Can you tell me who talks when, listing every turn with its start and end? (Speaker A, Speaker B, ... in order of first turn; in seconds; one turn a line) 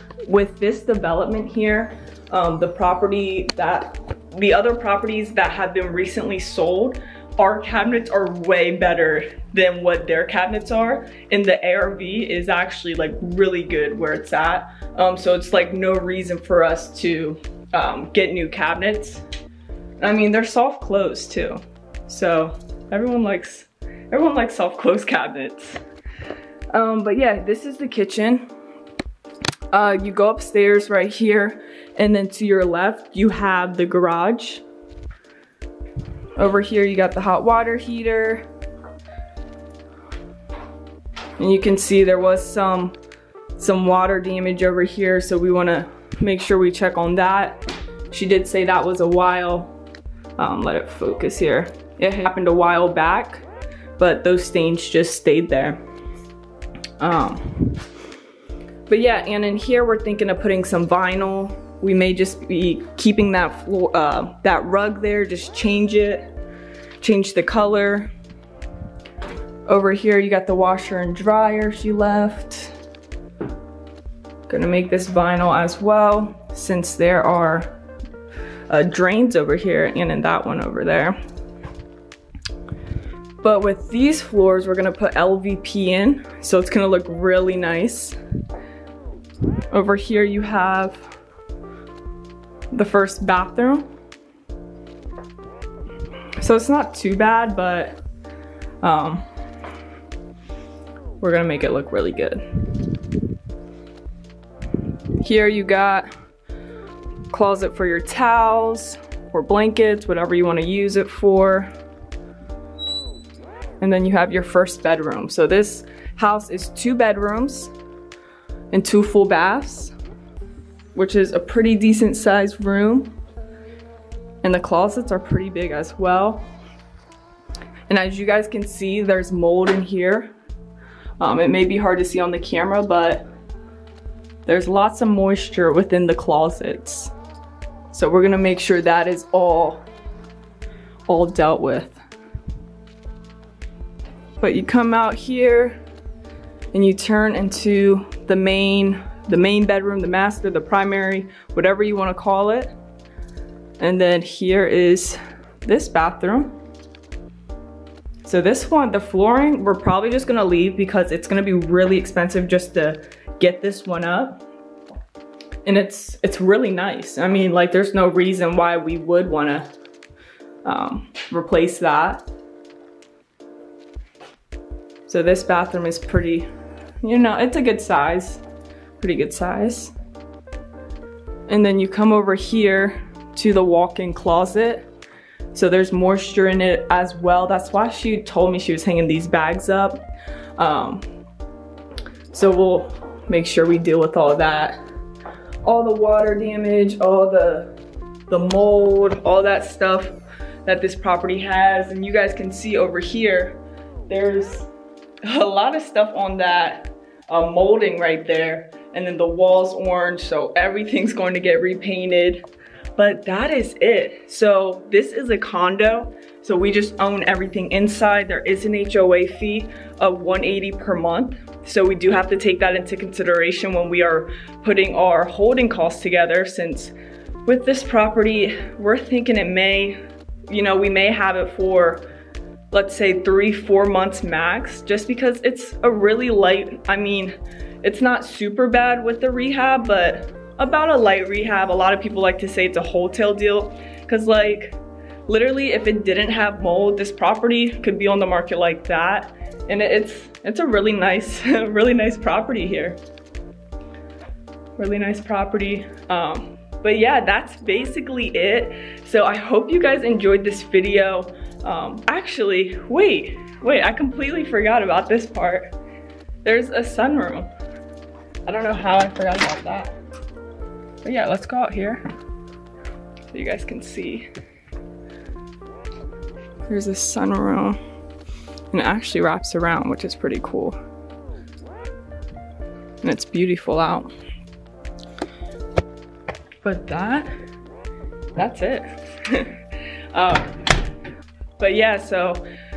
Speaker A: 0.3-19.2
Speaker A: 20.0-25.8
Speaker A: 26.7-28.5
Speaker A: 29.7-34.6
Speaker A: 36.4-38.4
Speaker A: 41.4-42.9
Speaker A: 43.6-49.7
Speaker A: 50.4-53.4
Speaker A: 54.0-55.8
Speaker A: 57.0-57.8
Speaker A: 58.9-66.3
Speaker A: 67.0-68.1
Speaker A: 69.7-72.7
Speaker A: 74.5-77.7
Speaker A: 78.7-81.2
Speaker A: 83.4-88.2
Speaker A: 89.7-91.0
Speaker A: 92.7-93.9
Speaker A: 96.4-98.0
Speaker A: 98.8-99.2
Speaker A: 101.2-103.2
Speaker A: 105.2-106.0
Speaker A: 107.3-111.7
Speaker A: 113.8-117.7
Speaker A: 118.7-119.9
Speaker A: 120.9-123.1
Speaker A: 124.4-126.5
Speaker A: 127.9-130.3
Speaker A: 131.2-133.3
Speaker A: 134.4-137.1
Speaker A: 137.9-139.8
Speaker A: 141.1-142.0
Speaker A: 144.4-145.8
Speaker A: 146.7-152.7
Speaker A: 153.8-156.6
Speaker A: 158.2-164.4
Speaker A: 165.6-169.7
Speaker A: 170.6-172.2
Speaker A: 175.1-176.5
Speaker A: 177.0-178.4
Speaker A: 179.0-179.9
Speaker A: 181.5-184.9
Speaker A: 185.5-190.0
Speaker A: 190.6-191.1
Speaker A: 192.3-194.8
Speaker A: 195.6-197.7
Speaker A: 198.3-203.6
Speaker A: 204.1-204.7
Speaker A: 205.2-212.4
Speaker A: 212.9-226.9
Speaker A: 227.4-230.0
Speaker A: 230.5-232.1
Speaker A: 232.7-253.0
Speaker A: 254.8-265.7
Speaker A: 266.4-267.5
Speaker A: 268.4-269.9
Speaker A: 271.0-272.0
Speaker A: 273.3-274.3
Speaker A: 276.6-277.8
Speaker A: 278.7-280.8
Speaker A: 283.0-284.1
Speaker A: 286.6-287.3
Speaker A: 288.4-289.6
Speaker A: 290.1-290.6
Speaker A: 291.6-292.4